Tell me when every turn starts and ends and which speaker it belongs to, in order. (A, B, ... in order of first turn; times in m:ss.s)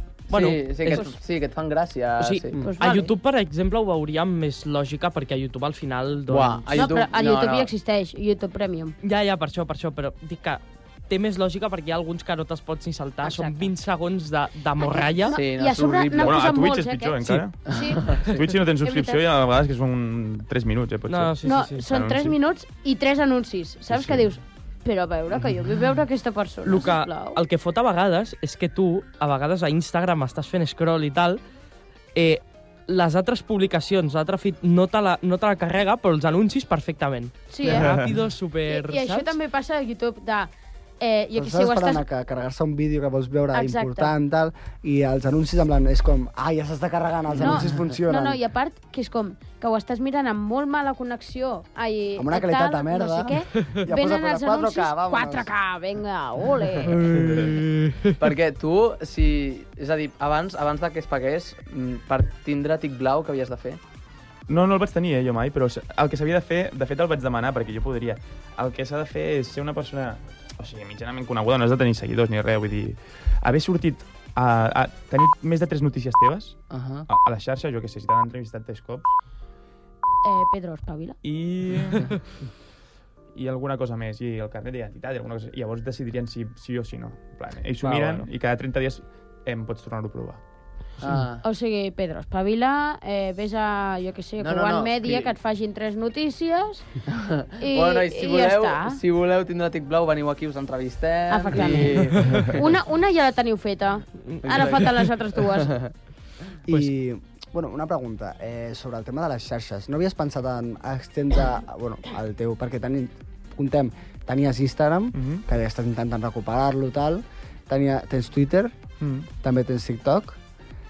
0:00.3-0:01.2 A
0:00.3-0:02.6 B
0:02.2-0:06.7 A
0:02.6-0:03.1 C
0:06.3-0:07.7 B
0:06.7-0:09.0 C
0:09.0-0:15.4 A
0:13.2-0:13.7 C
0:15.3-0:19.2 C
0:15.3-0:16.4 B
0:16.2-0:17.7 D
0:17.7-0:18.3 B
0:18.2-0:21.4 D
0:21.1-0:21.8 A
0:21.4-0:27.4 C
0:21.9-0:22.4 D
0:23.9-0:24.2 D
0:26.6-0:31.4 A
0:32.2-0:39.3 A
0:37.5-0:38.0 C
0:37.7-0:38.1 D
0:38.7-0:42.0 C
0:41.3-0:48.4 E
0:43.5-0:44.1 C
0:47.4-0:57.0 C
0:52.2-0:55.5 E
0:57.0-0:58.2 A
0:58.2-1:03.8 B
1:04.5-1:19.1 D
1:16.7-1:17.1 B
1:20.2-1:21.2 C
1:21.2-1:22.2 D
1:23.3-1:30.4 D
1:27.8-1:28.3 A
1:31.0-1:31.4 B
1:31.4-1:36.9 C
1:34.4-1:35.3 B
1:37.1-1:42.6 B
1:37.6-1:39.0 C
1:41.3-1:45.8 C
1:41.8-1:42.5 A
1:44.2-1:44.8 A
1:44.4-1:45.9 B
1:46.7-1:58.8 E
1:55.1-1:55.4 D
1:59.0-1:59.3 D
1:59.4-2:00.4 E